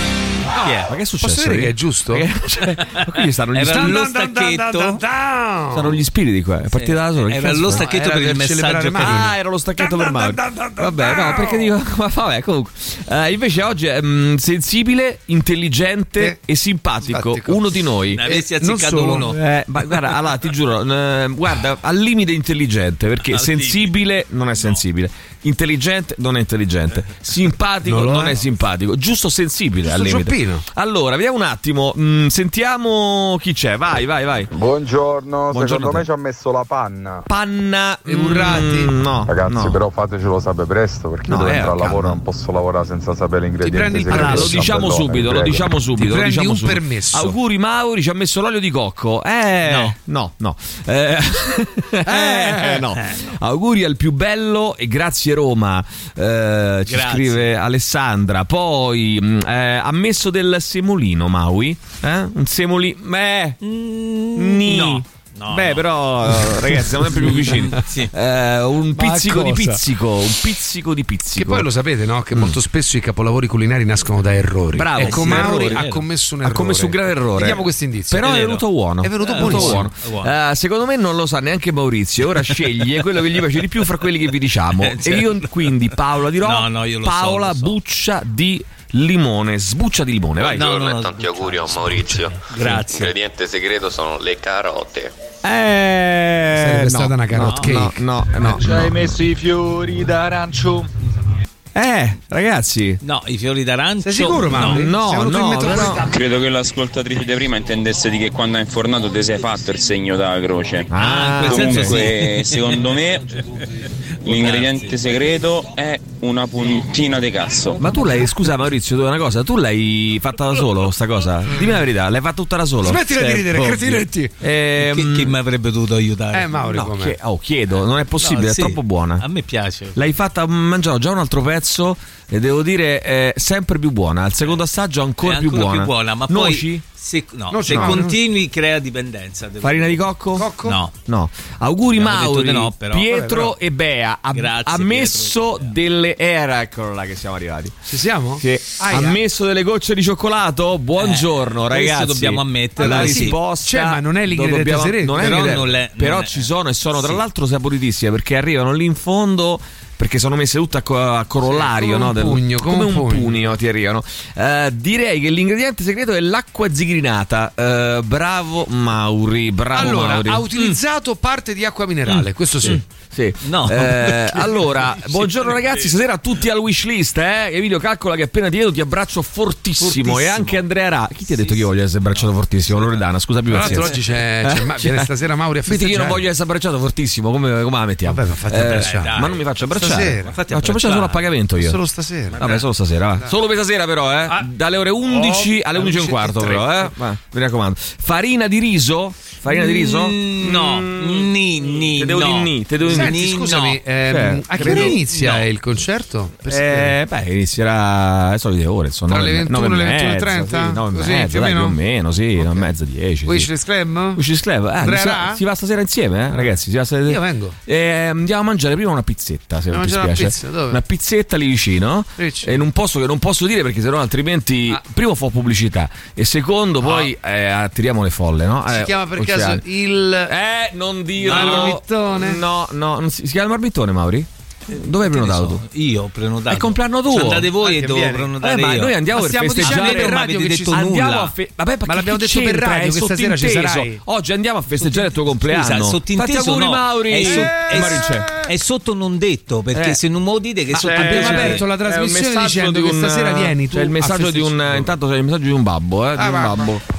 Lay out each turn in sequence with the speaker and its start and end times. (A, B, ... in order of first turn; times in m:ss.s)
0:00.6-0:00.9 A
0:00.8-0:04.0 B
0:01.2-0:02.3 C
0:03.6-0:05.0 A
0:03.6-0:06.0 C
0:05.7-0:07.9 B
0:06.7-0:09.3 A
0:07.7-0:11.7 C
0:09.0-0:18.2 B
0:17.0-0:19.3 C
0:18.1-0:19.4 A
0:19.3-0:34.5 B
0:23.2-0:24.0 A
0:27.9-0:28.4 C
0:29.9-0:30.6 C
0:34.5-0:37.3 D
0:35.5-0:36.1 B
0:37.3-0:39.8 B
0:38.1-0:38.9 C
0:39.3-0:45.7 D
0:41.3-0:42.2 C
0:41.4-0:41.9 B
0:43.6-0:44.8 C
0:44.1-1:03.6 B
0:45.9-0:47.4 C
0:49.6-0:50.0 A
0:52.1-0:52.8 C
0:56.9-0:57.5 A
1:03.6-1:05.9 A
1:04.4-1:11.7 B
1:07.2-1:08.1 A
1:09.0-1:09.8 C
1:11.4-1:18.3 C
1:12.3-1:12.6 B
1:14.7-1:15.9 B
1:15.0-1:16.0 A
1:16.4-1:30.7 B
1:18.2-1:18.6 A
1:19.0-1:19.9 C
1:19.2-1:20.3 A
1:24.8-1:25.7 A
1:26.4-1:27.8 A
1:30.4-1:35.1 E
1:30.5-1:33.1 A
1:35.4-1:39.2 B
1:36.6-1:38.6 C
1:37.4-1:37.8 A
1:38.7-1:40.9 F
1:41.8-1:43.0 B
1:43.0-1:44.9 A
1:44.0-1:46.1 C
1:44.5-1:46.1 B
1:46.0-1:53.2 G
1:50.9-1:52.1 B
1:51.0-1:52.8 A
1:54.2-1:57.8 G
1:54.2-1:54.9 A
1:57.8-2:05.4 B
2:02.8-2:04.3 C
2:04.8-2:06.7 A
2:06.3-2:07.2 C
2:06.6-2:09.2 B
2:08.2-2:10.0 A
2:10.0-2:16.8 B
2:15.2-2:20.1 A
2:17.5-2:18.2 C
2:17.7-2:18.0 B
2:19.6-2:20.5 B
2:20.4-2:20.8 C
2:20.6-2:20.9 A
2:21.0-2:27.8 B
2:22.0-2:23.1 A
2:23.1-2:23.5 C
2:24.3-2:25.7 A
2:27.9-2:29.2 C
2:28.4-2:50.7 B
2:31.0-2:33.4 A
2:32.8-2:35.6 C
2:35.2-2:37.2 A
2:41.4-2:43.5 C
2:49.7-2:52.8 C
2:52.1-2:52.8 A
2:52.7-3:05.1 B
2:53.4-2:55.9 A
2:59.9-3:00.6 A
3:01.3-3:03.0 A
3:03.5-3:06.2 C
3:03.6-3:03.9 A
3:05.7-3:11.8 B
3:08.1-3:09.2 C
3:08.7-3:11.2 A
3:09.8-3:10.4 C
3:11.6-3:12.4 C
3:12.4-3:12.6 A
3:12.4-3:23.2 B
3:15.1-3:16.9 C
3:19.5-3:23.8 A
3:22.9-3:27.0 C
3:24.1-3:25.0 B
3:24.6-3:25.4 A
3:26.5-3:33.5 B
3:29.1-3:31.8 C
3:32.4-3:32.7 C
3:33.3-3:34.2 C
3:34.2-3:49.6 B
3:34.8-3:35.4 C
3:37.1-3:37.6 C
3:39.7-3:40.8 C
3:42.2-3:42.6 C
3:46.8-3:47.1 C
3:48.7-3:50.3 C
3:50.3-3:55.6 B
3:51.2-3:51.8 A
3:51.2-3:52.4 C
3:54.9-4:01.3 A
3:56.5-3:57.5 B
3:57.6-3:58.3 C
3:58.4-4:08.3 B
3:59.1-4:00.8 C
4:01.9-4:04.0 C
4:05.4-4:11.6 A
4:07.2-4:08.0 C
4:09.7-4:10.0 B
4:10.7-4:14.9 C
4:10.7-4:16.8 B
4:16.2-4:16.7 C